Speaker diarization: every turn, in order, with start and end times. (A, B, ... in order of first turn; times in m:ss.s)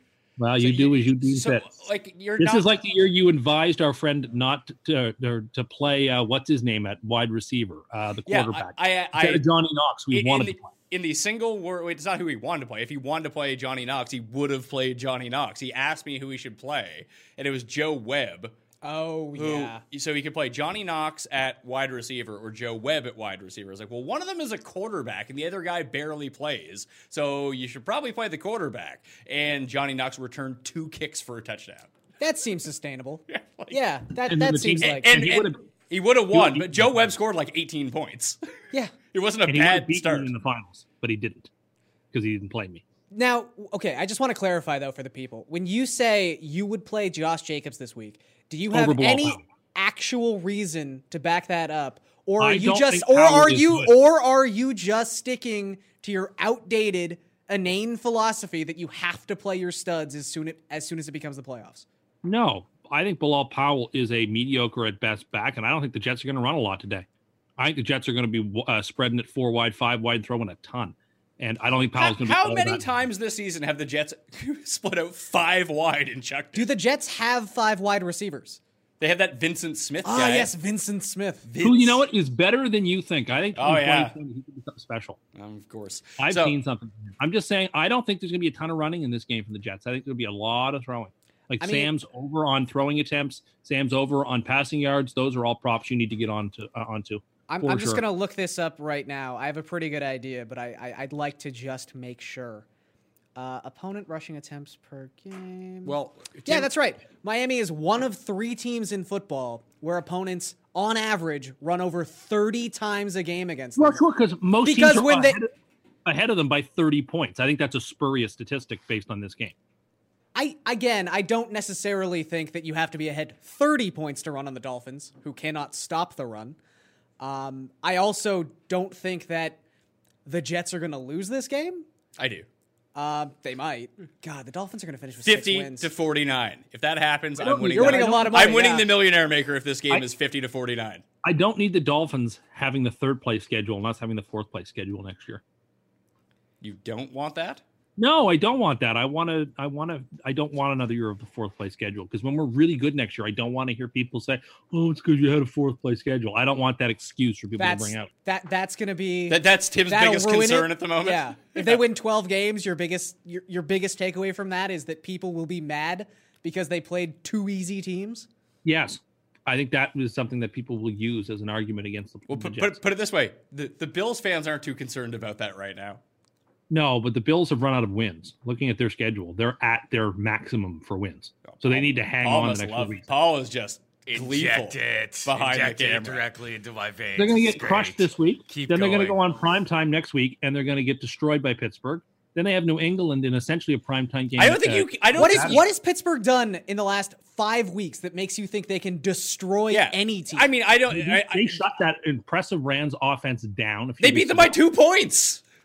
0:00.4-0:01.7 A
0:00.6-0:02.8 B
0:02.4-0:10.7 A
0:08.3-0:09.4 B
0:10.1-0:18.6 B
0:18.8-0:19.8 C
0:19.4-0:31.9 B
0:32.2-0:35.1 C
0:33.3-0:33.8 B
0:34.3-0:35.6 A
0:34.8-0:38.4 B
0:36.3-0:37.0 A
0:39.1-0:40.3 B
0:39.5-0:41.5 A
0:42.1-0:42.8 A
0:43.1-1:01.9 C
0:48.7-0:49.4 A
0:52.4-0:53.9 A
1:02.2-1:07.1 A
1:07.6-1:12.9 A
1:12.0-1:16.7 B
1:16.6-1:18.6 C
1:19.0-1:20.5 B
1:20.0-1:21.5 C
1:21.5-1:22.0 B
1:21.6-1:25.2 A
1:23.6-1:24.2 B
1:25.4-1:26.6 B
1:26.2-1:38.0 A
1:31.6-1:31.9 C
1:37.5-1:42.6 C
1:43.4-1:46.0 C
1:45.8-1:46.7 B
1:46.5-1:54.0 C
1:53.8-1:55.5 A
1:54.6-1:55.4 C
1:56.0-1:59.5 A
2:00.4-2:06.6 C
2:07.2-2:09.6 C
2:10.2-2:11.9 C
2:12.2-2:12.5 B
2:13.0-2:15.9 C
2:15.2-2:21.0 B
2:17.4-2:18.5 A
2:17.7-2:18.9 C
2:21.2-2:25.4 A
2:26.6-2:27.6 B
2:28.0-2:38.1 A
2:37.6-2:48.3 C
2:39.3-2:41.8 B
2:48.6-2:52.8 A
2:52.3-2:56.0 B
2:56.7-3:03.0 A
3:01.4-3:06.3 B
3:04.1-3:09.5 D
3:07.2-3:15.6 A
3:14.4-3:15.7 B
3:15.2-3:20.5 C
3:19.7-3:21.6 B
3:20.9-3:24.6 A
3:24.0-3:25.4 B